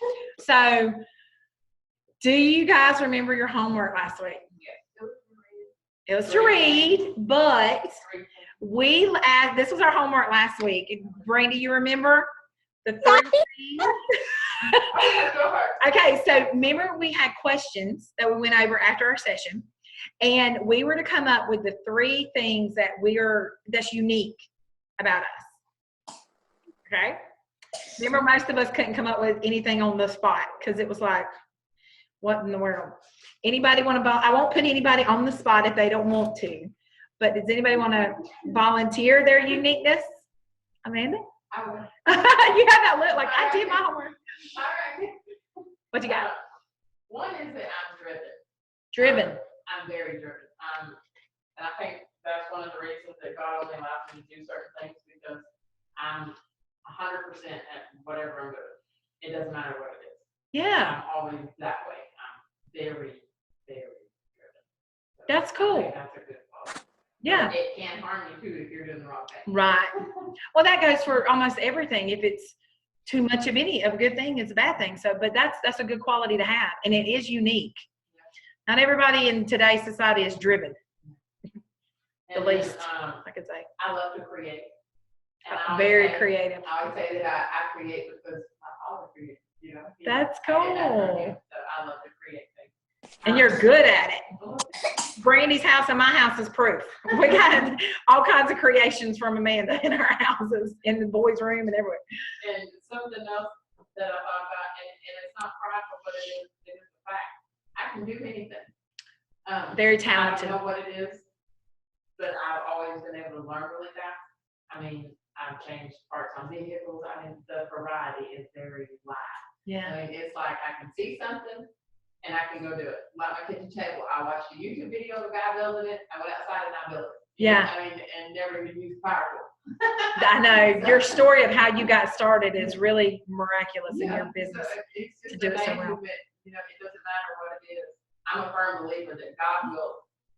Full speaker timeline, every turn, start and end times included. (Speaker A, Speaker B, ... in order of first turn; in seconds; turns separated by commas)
Speaker A: 0.4-1.0, Speaker A: 2.2-4.4, Speaker B: 4.6-5.7, Speaker A: 6.1-8.0, Speaker B: 6.2-7.0, Speaker B: 8.0-8.3, Speaker A: 8.6-12.3, Speaker A: 12.8-14.9, Speaker B: 14.9-15.8, Speaker A: 15.8-19.7, Speaker A: 20.2-24.4, Speaker A: 25.0-25.5, Speaker A: 26.9-27.2, Speaker A: 28.0-31.3, Speaker A: 32.2-40.2, Speaker A: 40.8-41.2, Speaker B: 41.5-42.1, Speaker A: 42.0-44.1, Speaker B: 43.1-44.0, Speaker B: 44.5-45.3, Speaker A: 45.9-46.3, Speaker B: 46.0-46.4, Speaker B: 47.1-48.4, Speaker A: 48.9-49.4, Speaker B: 49.0-51.0, Speaker B: 51.5-55.4, Speaker B: 56.0-64.6, Speaker A: 60.5-61.0, Speaker B: 65.2-69.5, Speaker A: 65.3-65.9, Speaker A: 67.2-67.5, Speaker A: 69.5-70.0, Speaker A: 70.5-72.5, Speaker A: 73.0-77.8, Speaker A: 78.7-80.8, Speaker B: 82.3-83.2, Speaker A: 82.3-83.7, Speaker B: 83.8-84.7, Speaker B: 85.4-92.7, Speaker A: 85.5-86.7, Speaker A: 90.0-91.3, Speaker B: 93.2-93.6, Speaker A: 93.2-94.2, Speaker B: 94.4-94.8, Speaker A: 95.1-102.0, Speaker B: 102.4-108.7, Speaker B: 109.5-111.2, Speaker A: 109.7-110.6, Speaker B: 112.2-121.7, Speaker A: 119.7-120.0, Speaker B: 122.2-131.2, Speaker A: 127.4-127.7, Speaker A: 130.2-134.7, Speaker B: 133.9-140.0, Speaker A: 135.3-136.0